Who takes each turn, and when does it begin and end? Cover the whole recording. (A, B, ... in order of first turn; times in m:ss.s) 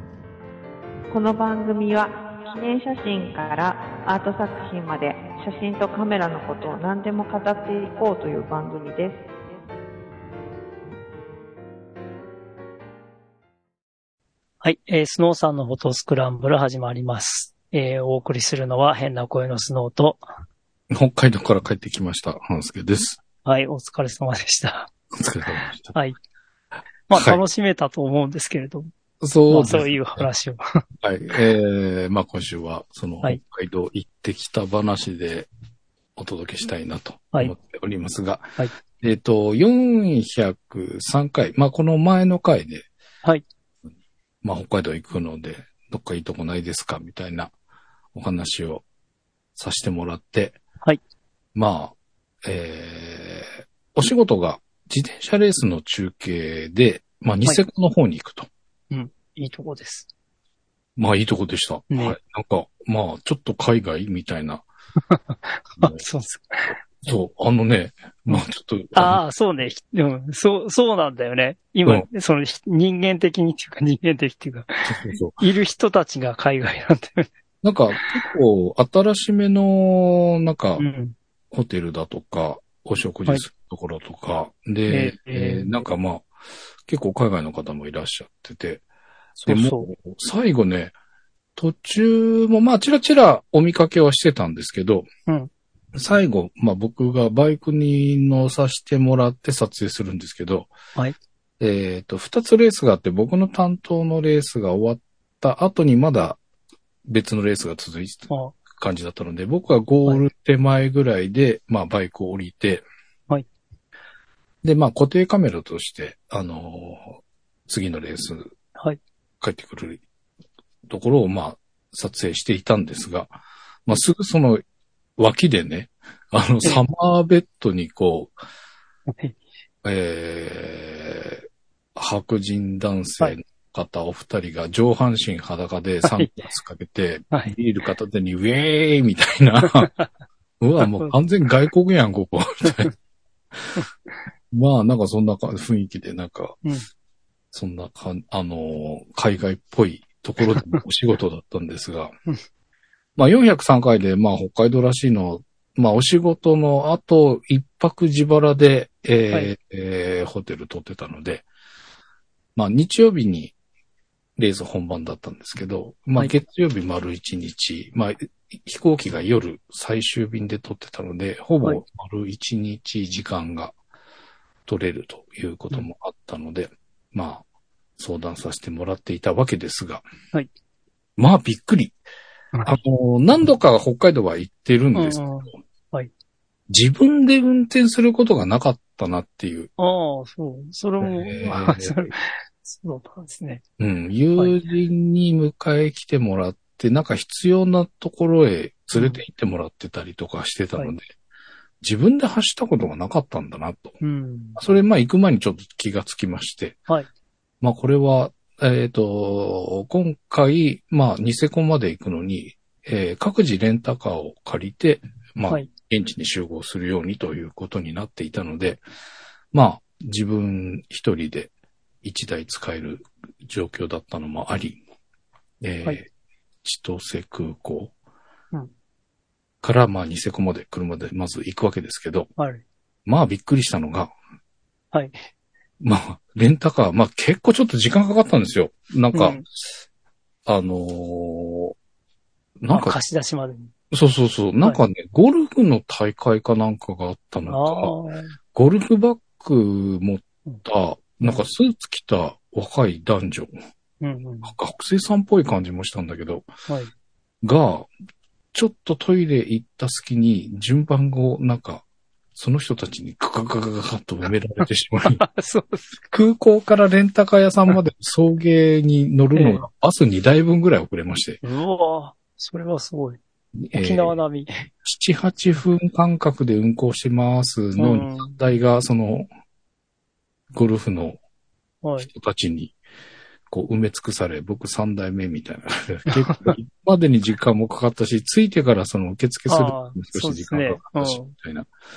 0:01.1-0:09.2 A
0:14.6-0:20.2 B
0:20.9-0:23.2 C
0:23.4-0:24.9 B
0:25.1-0:25.9 C
0:27.1-0:28.9 B
0:27.1-0:27.4 C
0:29.2-0:30.2 C
0:29.5-0:30.8 B
0:31.0-0:35.5 C
0:36.2-0:42.9 C
0:44.4-0:47.5 C
0:48.1-0:48.8 C
0:49.6-0:50.6 C
0:51.5-0:58.5 C
0:58.9-1:00.1 B
1:01.0-1:04.6 C
1:01.9-1:02.2 B
1:05.1-1:06.8 B
1:07.0-1:09.2 C
1:08.3-1:17.3 B
1:14.8-1:15.4 C
1:17.6-1:20.8 C
1:20.8-1:21.1 B
1:21.5-1:26.3 C
1:24.9-1:25.8 B
1:26.9-1:28.8 C
1:29.4-1:30.9 C
1:29.4-1:29.9 B
1:31.6-1:35.1 C
1:35.9-1:40.7 C
1:41.6-1:46.4 C
1:47.1-1:52.8 C
1:48.3-1:48.5 B
1:54.6-1:58.5 C
1:59.4-2:00.0 C
2:00.9-2:03.3 C
2:03.8-2:04.6 C
2:05.2-2:08.3 C
2:09.8-2:19.9 C
2:16.0-2:16.3 B
2:19.6-2:20.1 B
2:20.6-2:22.9 C
2:20.8-2:21.1 B
2:22.6-2:22.9 B
2:23.8-2:24.2 B
2:24.5-2:26.6 C
2:27.5-2:32.1 C
2:30.5-2:30.8 B
2:33.2-2:41.4 C
2:42.5-2:43.5 C
2:44.4-2:53.7 C
2:54.6-2:57.4 C
2:58.0-3:00.0 C
3:01.2-3:02.0 C
3:02.6-3:05.6 C
3:04.9-3:06.1 B
3:06.7-3:09.7 C
3:09.8-3:13.6 B
3:11.0-3:12.1 C
3:13.8-3:21.1 C
3:18.9-3:19.2 B
3:21.8-3:24.0 C
3:24.0-3:24.6 B
3:24.6-3:26.8 C
3:27.6-3:38.8 C
3:39.5-3:41.5 C
3:42.0-3:44.8 C
3:45.6-3:46.0 C
3:46.6-3:47.9 C
3:49.6-3:52.3 C
3:52.4-3:52.6 B
3:53.0-3:54.1 C
3:54.9-3:55.2 B
3:55.8-3:59.4 C
3:59.1-3:59.4 B
4:00.4-4:01.7 C
4:02.6-4:03.0 C
4:02.7-4:03.7 B
4:03.9-4:07.9 C
4:07.5-4:08.4 B
4:08.5-4:13.5 C
4:14.0-4:14.5 B
4:14.4-4:16.5 C
4:17.4-4:17.9 C
4:18.5-4:25.2 C
4:25.0-4:26.0 B
4:26.1-4:31.4 C
4:29.3-4:29.6 B
4:31.4-4:33.2 B
4:33.6-4:34.2 C
4:33.7-4:34.5 B
4:34.8-4:39.3 C
4:37.8-4:38.4 B
4:40.5-4:41.2 C
4:41.8-4:42.1 B
4:42.0-4:42.8 C
4:43.5-4:51.7 C
4:46.1-4:46.6 B
4:49.5-4:51.3 B